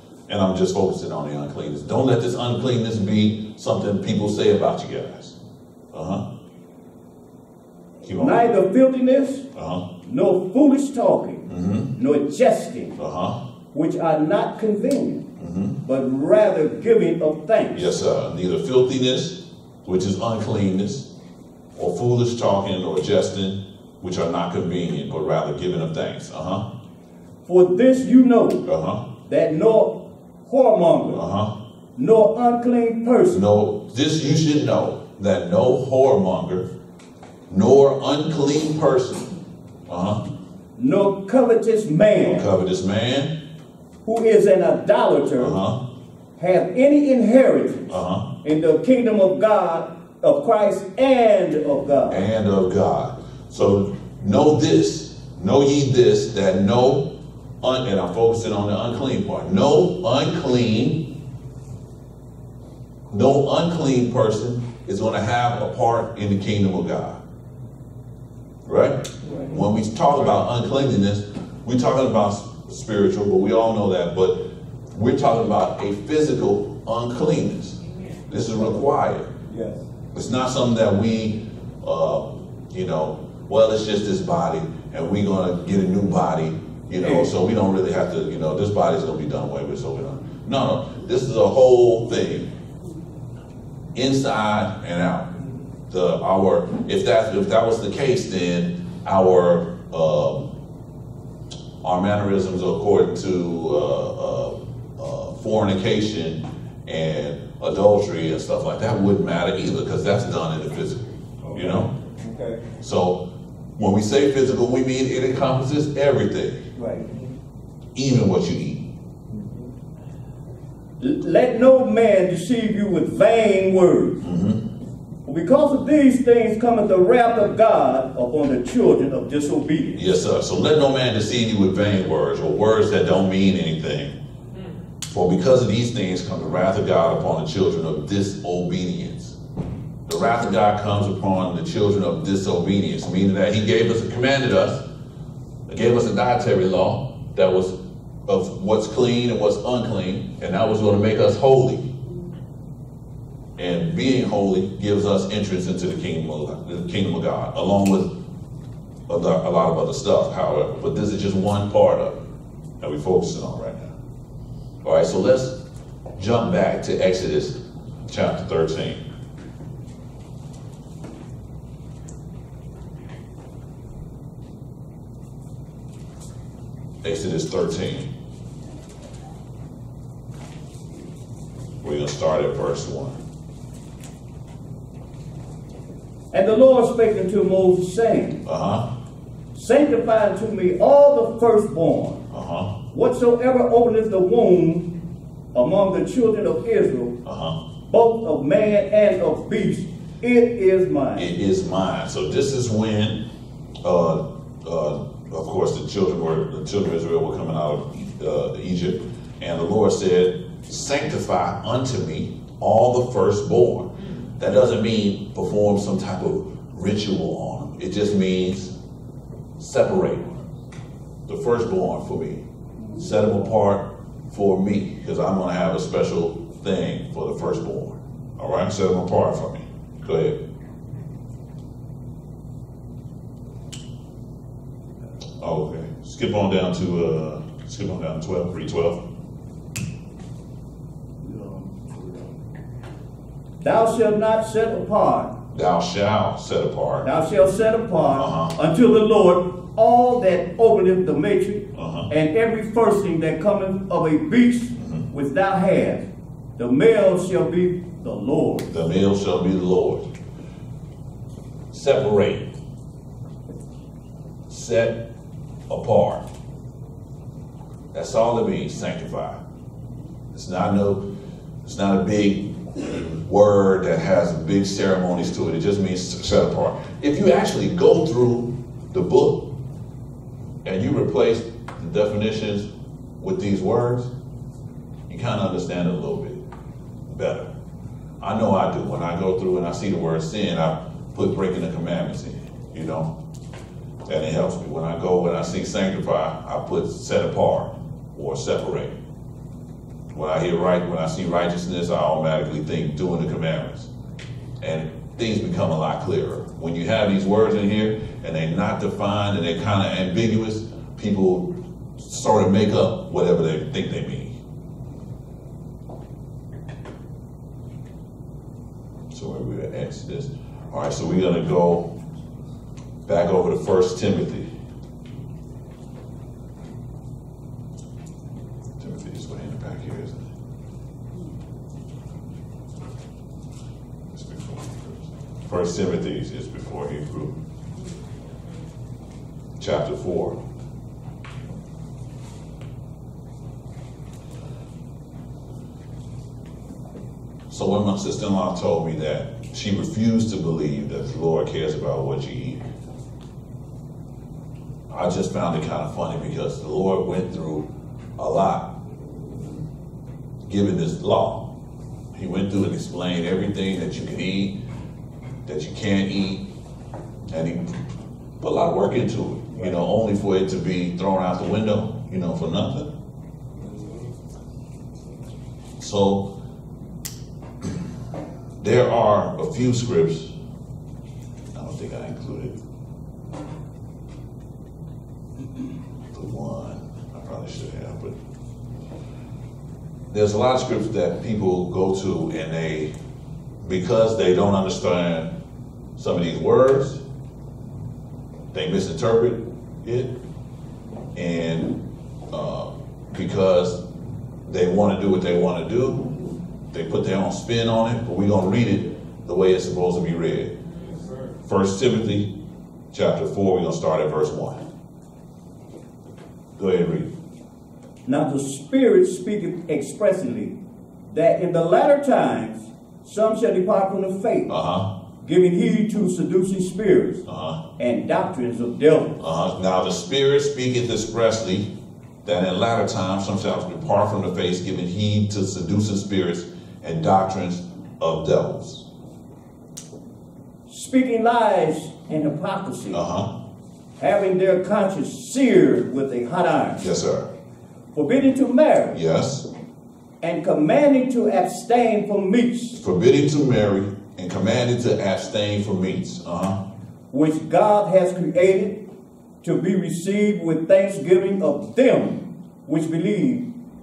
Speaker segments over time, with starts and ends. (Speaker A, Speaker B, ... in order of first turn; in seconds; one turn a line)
Speaker A: 0.3-5.3
Speaker A: 5.9-6.2
Speaker A: 8.0-8.4
Speaker B: 8.1-9.5
Speaker A: 9.5-9.8
Speaker B: 10.0-13.0
Speaker A: 11.5-11.9
Speaker A: 13.0-13.4
Speaker B: 13.7-15.2
Speaker A: 15.4-15.8
Speaker B: 15.8-17.9
Speaker A: 17.7-21.1
Speaker A: 21.7-26.6
Speaker B: 27.4-28.6
Speaker A: 28.6-29.0
Speaker B: 29.2-31.2
Speaker A: 31.1-31.5
Speaker B: 31.9-33.4
Speaker A: 33.3-36.7
Speaker A: 37.5-39.3
Speaker A: 39.9-40.2
Speaker B: 40.8-42.5
Speaker A: 42.2-43.3
Speaker B: 44.0-45.6
Speaker A: 45.4-45.8
Speaker B: 46.4-52.2
Speaker A: 47.9-48.2
Speaker A: 52.1-57.1
Speaker A: 57.6-61.1
Speaker A: 63.1-67.2
Speaker A: 68.6-74.4
Speaker A: 74.9-79.3
Speaker C: 79.5-79.9
Speaker A: 80.1-92.5
Speaker A: 93.9-95.3
Speaker A: 95.9-100.5
Speaker A: 101.8-111.9
Speaker C: 111.5-112.6
Speaker A: 112.8-113.2
Speaker A: 113.8-116.6
Speaker B: 116.8-117.0
Speaker C: 117.0-117.3
Speaker A: 117.9-118.8
Speaker C: 119.3-119.7
Speaker B: 121.0-124.2
Speaker A: 124.2-124.6
Speaker B: 125.2-129.9
Speaker A: 129.9-134.2
Speaker A: 135.1-139.4
Speaker A: 140.1-144.8
Speaker A: 145.7-151.9
Speaker A: 153.6-158.1
Speaker A: 159.1-162.2
Speaker A: 162.8-163.9
Speaker A: 164.8-165.6
Speaker A: 166.2-169.0
Speaker A: 177.0-178.1
Speaker A: 181.8-183.2
Speaker B: 186.3-188.4
Speaker A: 188.4-188.9
Speaker B: 189.5-192.2
Speaker A: 192.3-192.7
Speaker B: 192.9-194.9
Speaker B: 195.5-197.2
Speaker A: 197.2-197.6
Speaker B: 197.9-201.3
Speaker A: 201.2-203.2
Speaker A: 203.8-218.7
Speaker A: 219.6-220.4
Speaker A: 221.3-222.4
Speaker A: 222.9-230.4
Speaker A: 235.4-239.0
Speaker B: 241.2-241.7
Speaker B: 243.6-245.3
Speaker A: 245.5-247.1
Speaker B: 247.0-256.0
Speaker A: 248.2-248.5
Speaker A: 251.7-252.1
Speaker A: 254.8-255.0
Speaker B: 256.6-258.7
Speaker A: 258.7-260.1
Speaker A: 261.7-262.5
Speaker A: 264.5-265.0
Speaker A: 265.7-266.2
Speaker A: 267.9-269.4
Speaker A: 270.3-271.0
Speaker A: 271.6-279.5
Speaker A: 280.6-284.1
Speaker A: 285.1-286.4
Speaker A: 287.1-287.5
Speaker A: 288.2-293.1
Speaker A: 294.1-299.0
Speaker A: 300.1-303.9
Speaker A: 304.6-314.3
Speaker A: 319.1-321.9
Speaker A: 323.1-324.5
Speaker A: 328.8-330.3
Speaker A: 334.1-337.4
Speaker A: 339.6-340.4
Speaker A: 347.5-352.6
Speaker A: 354.9-357.6
Speaker A: 358.2-358.7
Speaker A: 360.4-361.5
Speaker A: 362.1-364.6
Speaker A: 365.4-366.4
Speaker A: 367.3-367.8
Speaker A: 368.4-372.9
Speaker A: 375.8-376.3
Speaker A: 378.6-380.3
Speaker A: 381.5-382.6
Speaker A: 386.1-388.2
Speaker A: 390.1-392.9
Speaker A: 393.6-395.3
Speaker A: 395.9-397.0
Speaker A: 398.5-400.1
Speaker A: 401.1-401.8
Speaker A: 402.3-403.8
Speaker A: 404.4-406.1
Speaker A: 406.7-410.5
Speaker A: 411.4-412.3
Speaker A: 412.9-414.6
Speaker A: 416.6-417.1
Speaker B: 418.1-420.6
Speaker B: 421.1-424.5
Speaker A: 424.5-424.9
Speaker B: 425.2-427.2
Speaker A: 427.2-427.6
Speaker B: 427.8-429.1
Speaker A: 429.2-431.7
Speaker A: 432.2-438.8
Speaker B: 440.7-443.0
Speaker A: 442.9-443.3
Speaker B: 444.0-446.8
Speaker A: 446.8-447.3
Speaker B: 447.9-449.0
Speaker A: 448.9-449.5
Speaker B: 450.2-452.8
Speaker A: 452.8-456.6
Speaker B: 457.1-458.8
Speaker B: 459.4-463.5